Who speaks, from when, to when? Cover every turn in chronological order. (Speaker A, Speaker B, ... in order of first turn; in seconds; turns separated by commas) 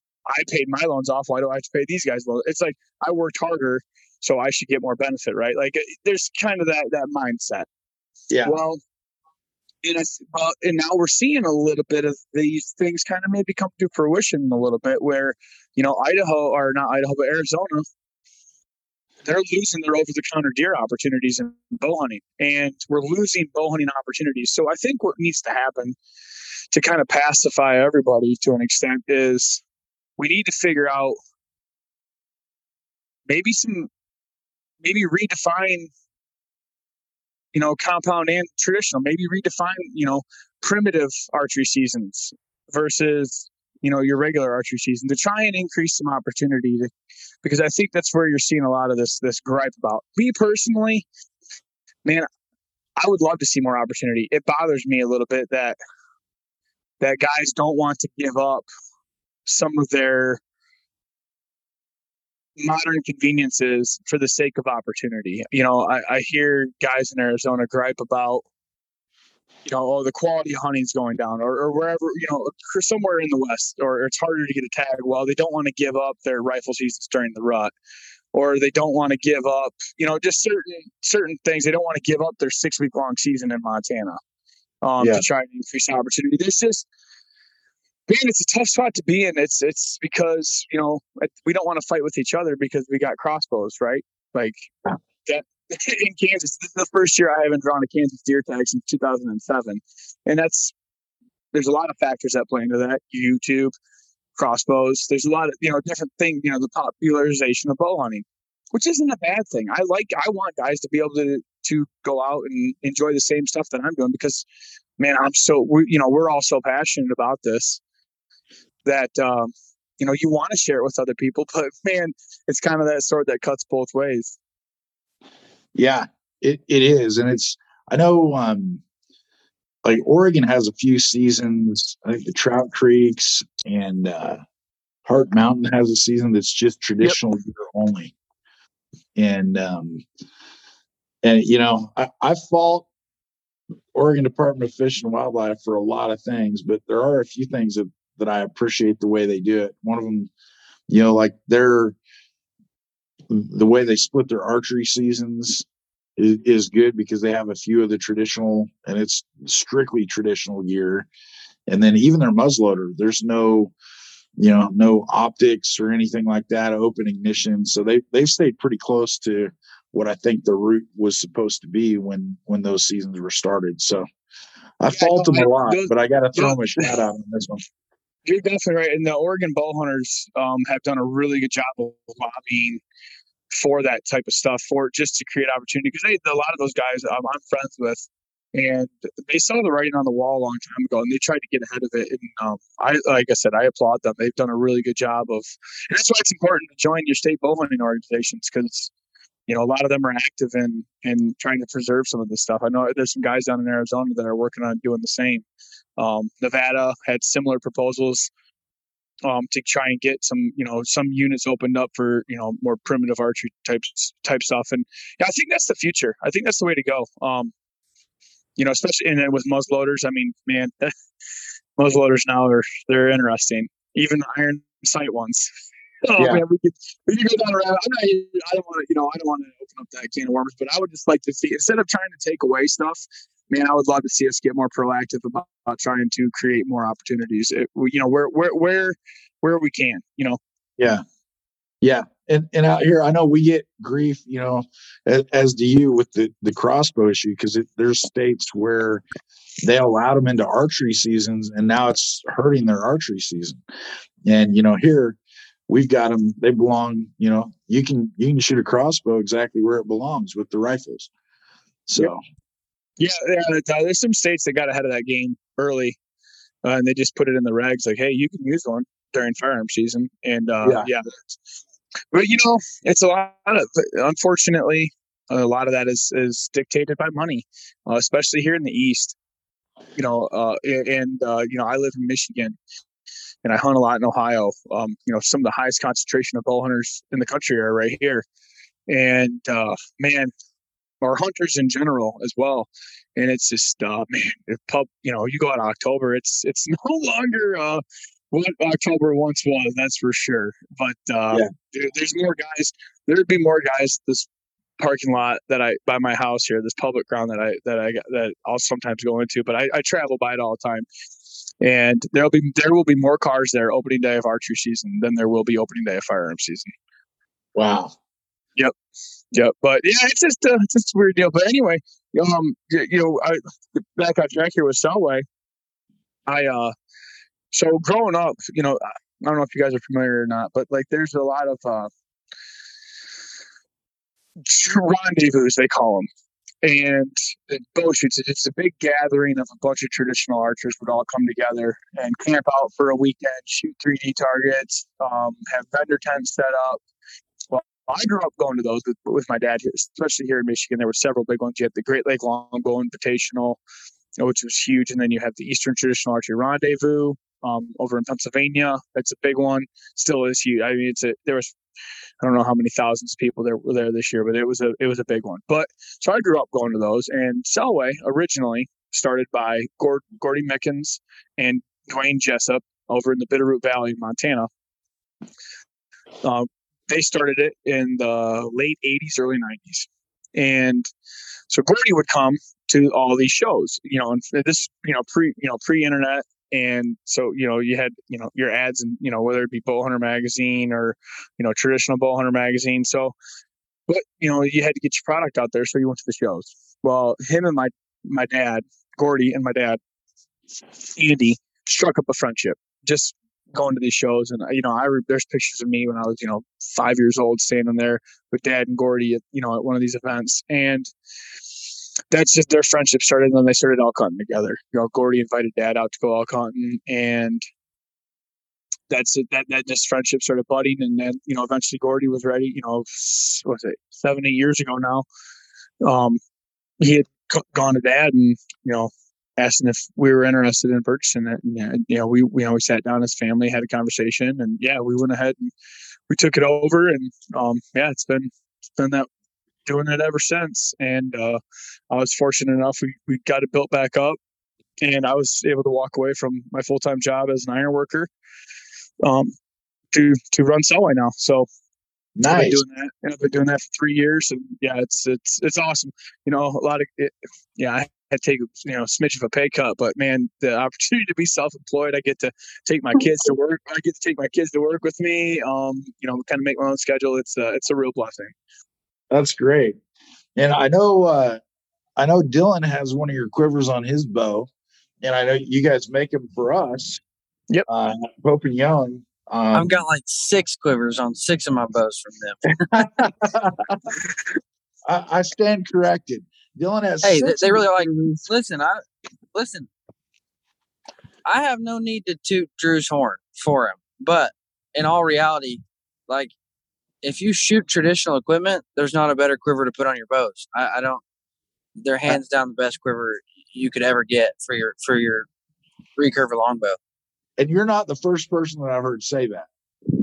Speaker A: 0.3-7.7, Speaker B: 8.3-8.6, Speaker A: 8.4-8.8, Speaker A: 9.8-17.9, Speaker A: 19.2-26.0, Speaker A: 26.7-29.6, Speaker A: 30.2-31.1, Speaker A: 33.3-33.9, Speaker A: 34.8-35.9, Speaker A: 37.5-46.9, Speaker A: 47.4-51.1, Speaker A: 53.0-55.8, Speaker A: 57.0-58.7, Speaker A: 59.5-60.4, Speaker A: 62.6-68.5, Speaker A: 69.7-77.7, Speaker A: 78.3-84.2, Speaker A: 84.8-86.9, Speaker B: 85.0-85.2, Speaker A: 88.1-94.7, Speaker A: 95.2-100.7, Speaker A: 101.5-103.7, Speaker A: 104.4-114.5, Speaker A: 115.0-117.8, Speaker A: 118.8-124.3, Speaker B: 125.8-128.8, Speaker B: 129.8-134.4, Speaker B: 135.1-138.1, Speaker B: 139.2-140.0, Speaker B: 141.2-142.9, Speaker B: 143.9-150.3, Speaker B: 150.9-152.0, Speaker B: 153.3-155.7, Speaker B: 156.2-161.1, Speaker B: 161.7-163.7, Speaker B: 164.4-174.1, Speaker B: 174.8-177.6, Speaker A: 174.9-176.9, Speaker A: 178.3-182.8, Speaker A: 183.5-198.9, Speaker A: 199.5-205.4, Speaker A: 206.0-208.3, Speaker A: 209.2-217.5, Speaker A: 218.6-220.9, Speaker A: 221.8-225.5, Speaker A: 226.0-240.4, Speaker B: 226.2-226.4, Speaker B: 240.8-241.0, Speaker B: 241.8-249.0, Speaker B: 249.6-253.6, Speaker B: 254.2-261.1, Speaker B: 261.9-262.2, Speaker A: 263.0-266.0, Speaker A: 266.6-271.4, Speaker B: 270.6-270.9, Speaker A: 272.1-279.2, Speaker A: 280.0-282.6, Speaker A: 283.4-288.2, Speaker A: 288.9-290.3, Speaker A: 291.0-304.3, Speaker A: 304.8-310.9, Speaker A: 311.6-316.7, Speaker B: 317.6-317.9, Speaker A: 319.3-325.2, Speaker A: 326.3-326.7, Speaker A: 327.5-331.9, Speaker A: 334.4-336.1, Speaker A: 336.6-346.8, Speaker A: 347.5-353.6, Speaker A: 354.2-361.6, Speaker A: 362.2-374.5, Speaker A: 376.2-380.9, Speaker A: 381.5-393.1, Speaker A: 393.9-399.8, Speaker A: 400.9-410.9, Speaker A: 412.1-417.4, Speaker A: 418.9-425.1, Speaker A: 425.8-426.2, Speaker A: 426.8-435.5, Speaker A: 436.1-439.1, Speaker A: 439.7-444.2, Speaker A: 444.8-448.1, Speaker A: 449.0-449.3, Speaker A: 449.9-451.5, Speaker B: 452.2-452.6, Speaker A: 452.3-468.3, Speaker B: 469.1-469.8, Speaker B: 470.4-471.4, Speaker B: 472.0-474.5, Speaker B: 475.0-477.0, Speaker B: 477.7-479.8, Speaker C: 479.5-482.6, Speaker B: 482.7-483.8, Speaker B: 484.9-488.1, Speaker C: 487.0-489.7, Speaker C: 491.2-496.3, Speaker C: 497.0-501.0, Speaker C: 501.8-505.3, Speaker C: 506.0-506.8, Speaker B: 507.4-509.5